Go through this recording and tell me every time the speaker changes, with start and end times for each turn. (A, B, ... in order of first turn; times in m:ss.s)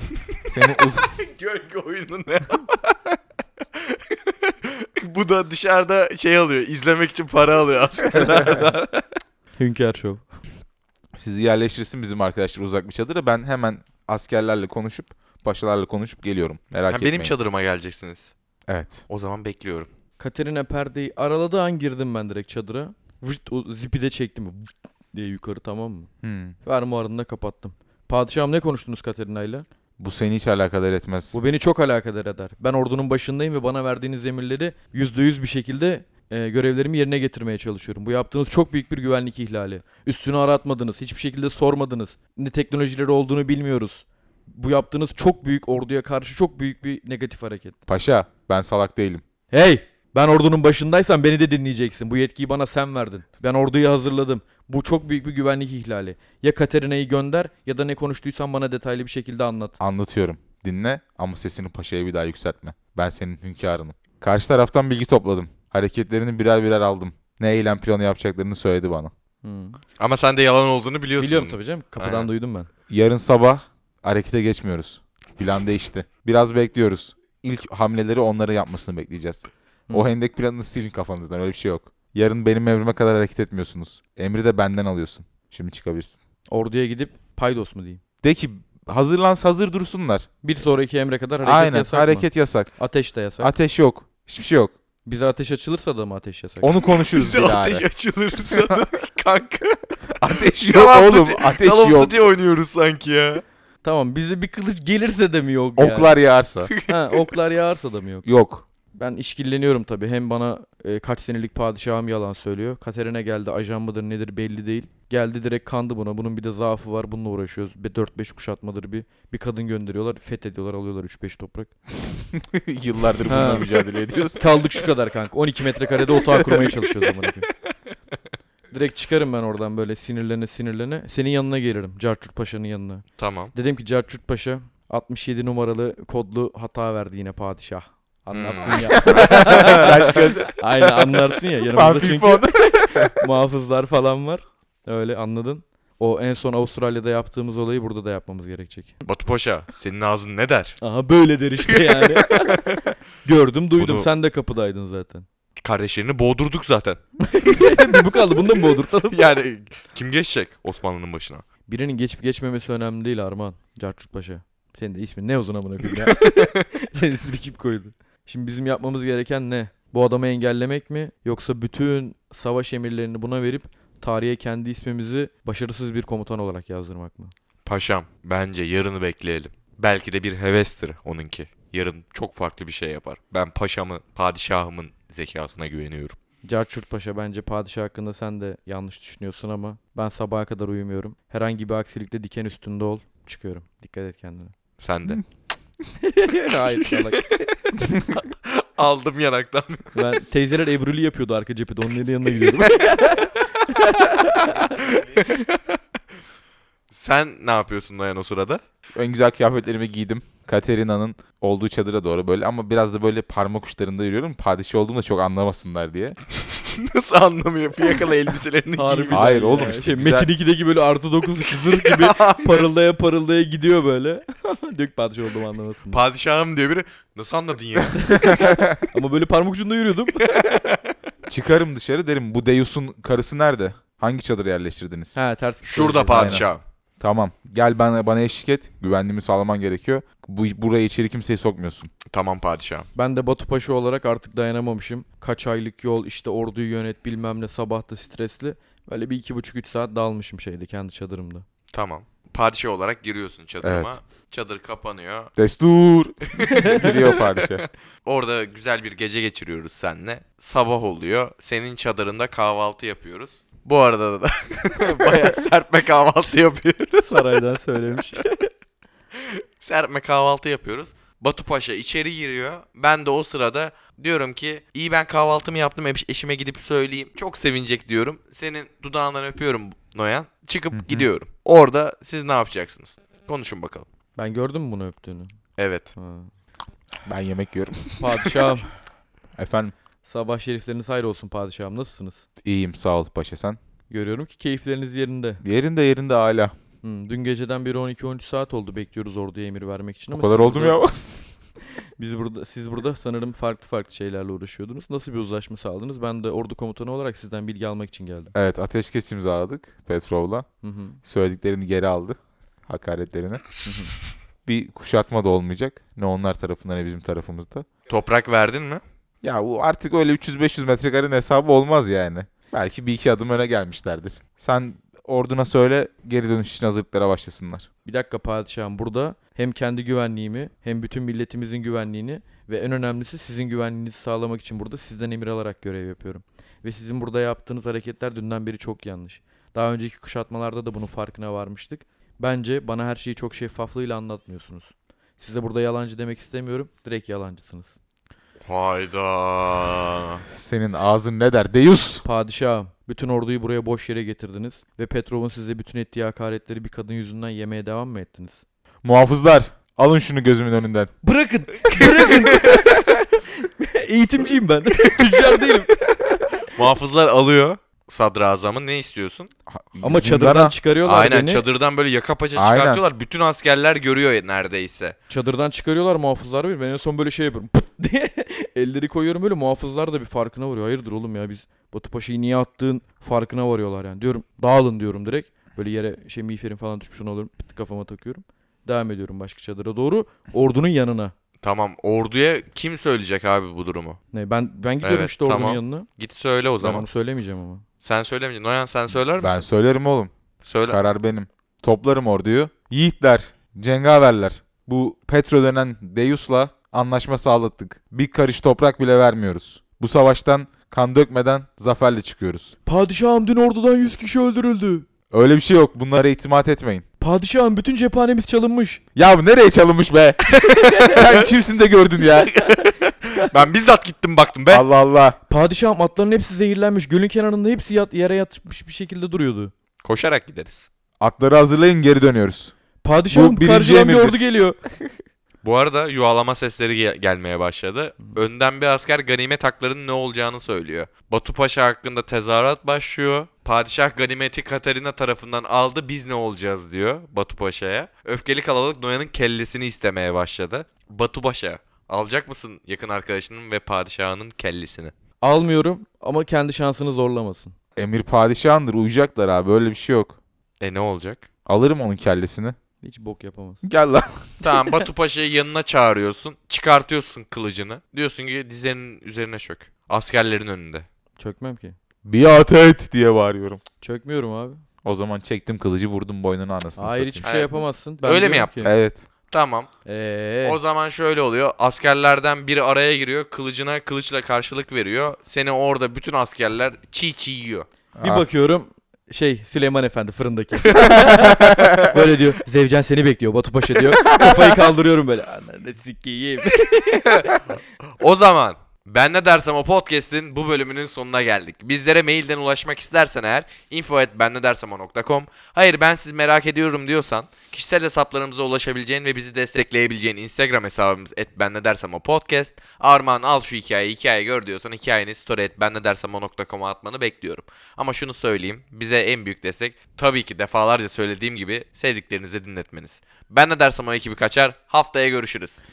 0:00.5-0:01.2 A
0:01.2-0:03.2 B
0:03.8-0:09.0 B
0:08.2-0:08.6 C
0:09.6-0:10.3 C
0:11.1-0:17.3 A
0:16.9-0:18.3 B
0:18.7-0:19.0 A
0:19.1-0:19.9 B
0:20.2-0:26.1 C
0:26.2-0:26.6 A
0:26.6-0:29.6 C
0:30.0-0:31.4 A
0:31.3-0:47.8 C
0:47.9-0:49.2 A
0:49.5-0:59.8 C
0:59.8-1:09.1 A
1:09.4-1:09.8 C
1:10.0-1:12.3 B
1:11.2-1:12.7 C
1:12.9-1:26.2 A
1:26.5-1:28.0 C
1:28.2-1:30.3 A
1:30.4-1:33.5 C
1:31.4-1:32.8 A
1:33.4-1:34.7 A
1:35.1-1:36.8 C
1:36.6-1:37.8 A
1:36.9-1:43.4 B
1:38.5-1:38.8 A
1:40.2-1:42.2 A
1:43.8-1:46.1 C
1:45.8-1:46.7 A
1:46.7-1:47.2 B
1:46.9-1:48.3 C
1:48.2-1:48.6 A
1:48.9-2:01.8 C
2:02.3-2:04.4 A
2:03.3-2:03.7 C
2:04.4-2:07.5 C
2:06.6-2:07.0 B
2:08.7-2:29.0 C
2:13.2-2:13.5 B
2:18.3-2:20.2 B
2:18.9-2:20.6 A
2:21.7-2:23.1 A
2:29.0-2:30.8 B
2:30.8-2:32.6 C
2:31.7-2:32.8 B
2:33.2-2:35.3 C
2:33.8-2:34.1 B
2:35.6-2:37.8 B
2:37.2-2:39.2 C
2:39.1-2:41.4 B
2:41.7-2:57.3 C
2:45.9-2:46.6 B
2:57.6-3:06.2 B
3:06.4-3:14.6 C
3:14.8-3:15.2 B
3:16.0-3:17.4 C
3:16.8-3:20.0 B
3:20.0-3:24.8 C
3:24.5-3:25.6 B
3:26.9-3:28.6 B
3:29.0-3:36.2 A
3:36.3-3:39.4 B
3:38.8-3:46.0 C
3:39.1-3:40.3 A
3:41.7-3:42.7 B
3:45.9-3:48.4 B
3:48.1-3:50.6 C
3:48.4-3:48.8 A
3:50.2-3:50.8 B
3:51.3-3:55.2 A
3:55.2-3:56.5 C
3:55.7-3:56.6 B
3:56.1-3:56.5 A
3:57.0-4:01.9 A
4:02.1-4:02.9 B
4:03.0-4:11.5 C
4:11.7-4:15.3 B
4:13.6-4:14.0 A
4:15.4-4:17.6 A
4:16.4-4:27.4 B
4:16.5-4:16.9 C
4:27.1-4:28.5 C
4:29.2-4:43.9 B
4:40.7-4:41.1 A
4:44.2-4:45.3 C
4:45.6-4:45.9 B
4:46.0-4:46.3 C
4:47.0-4:48.3 A
4:48.0-4:48.7 C
4:49.4-4:49.7 A
4:50.0-4:52.2 C
4:52.4-4:53.6 A
4:53.9-4:55.4 C
4:55.4-4:56.5 A
4:56.8-5:00.8 C
5:00.2-5:01.3 A
5:02.0-5:08.3 C
5:08.3-5:10.5 A
5:10.6-5:11.0 C
5:11.0-5:13.4 A
5:13.6-5:13.9 C
5:14.5-5:17.7 A
5:17.9-5:18.8 B
5:19.2-5:27.7 A
5:27.8-5:47.7 C
5:48.4-5:50.2 B
5:50.3-5:52.0 A
5:52.0-5:58.4 C
5:58.8-6:00.9 A
6:01.0-6:06.5 C
6:02.2-6:02.6 B
6:06.4-6:09.3 B
6:09.5-6:10.6 A
6:09.8-6:11.4 C
6:10.8-6:15.0 B
6:12.4-6:12.8 A
6:15.1-6:31.1 C
6:31.4-6:34.0 B
6:34.1-6:35.9 C
6:34.8-6:36.9 B
6:36.6-6:37.6 C
6:37.8-6:39.4 B
6:39.2-6:40.1 A
6:40.4-6:40.8 B
6:40.7-6:52.5 A
6:52.7-6:54.9 C
6:55.1-6:56.8 A
6:57.0-6:58.8 C
6:59.0-7:02.4 A
7:00.4-7:01.2 B
7:02.4-7:04.6 B
7:04.5-7:05.2 A
7:05.3-7:09.5 C
7:09.8-7:10.7 B
7:11.0-7:12.5 A
7:12.8-7:14.6 C
7:13.1-7:14.2 A
7:15.4-7:34.9 B
7:35.2-7:37.6 C
7:37.8-7:40.2 A
7:40.6-7:41.3 B
7:41.5-7:42.6 A
7:42.8-7:43.6 C
7:43.6-7:44.4 A
7:44.4-7:50.9 B
7:51.2-7:51.8 C
7:52.0-7:53.6 A
7:53.8-7:54.6 C
7:54.8-7:57.2 A
7:56.8-7:58.7 C
7:57.2-7:58.8 B
7:58.6-7:59.0 A
7:59.3-7:59.7 B
7:59.8-8:00.6 C
8:00.4-8:07.7 B
8:08.0-8:08.2 A
8:08.0-8:17.4 C
8:11.1-8:11.9 A
8:18.0-8:45.6 B